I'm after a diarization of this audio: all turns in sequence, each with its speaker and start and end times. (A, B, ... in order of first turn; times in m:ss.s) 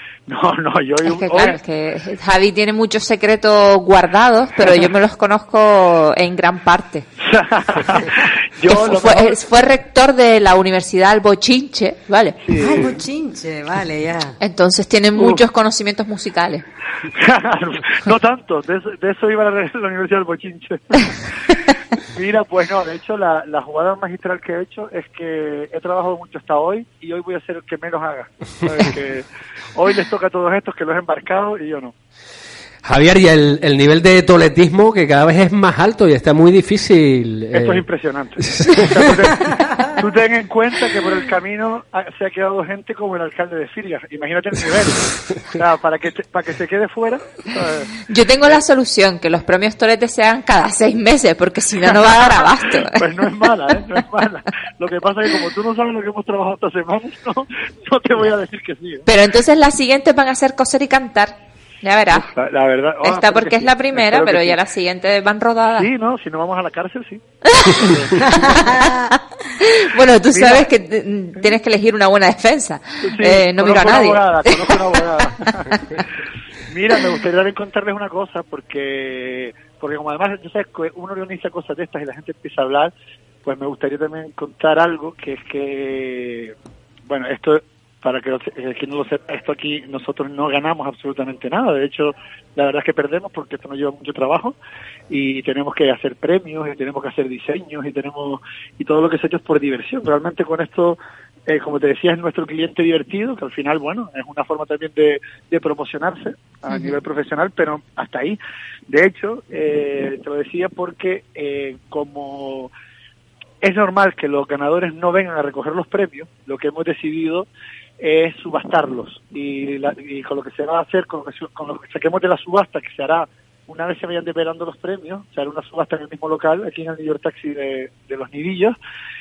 0:00.3-0:01.6 A
0:01.0-0:07.1 B
0:07.2-0:09.4 A
0:08.7-0:12.4 B
0:12.4-0:13.0 A
0:12.6-0:14.4 C
0:14.4-0:16.6 B
0:15.2-0:15.4 A
0:17.1-0:21.3 A
0:22.0-0:31.9 A
0:32.8-0:37.9 D
0:37.5-0:47.9 A
0:38.4-0:39.1 D
0:48.1-0:53.0 B
0:51.9-0:59.0 A
0:59.1-1:02.3 B
1:02.1-1:04.6 A
1:03.0-1:05.9 B
1:05.8-1:08.4 A
1:07.5-1:14.8 B
1:08.2-1:09.1 C
1:10.3-1:10.7 A
1:13.0-1:15.8 A
1:16.7-1:22.9 A
1:23.4-1:26.6 A
1:27.1-1:34.6 A
1:35.1-1:48.4 A
1:48.9-1:52.7 A
1:53.6-1:57.5 A
1:58.0-2:08.8 A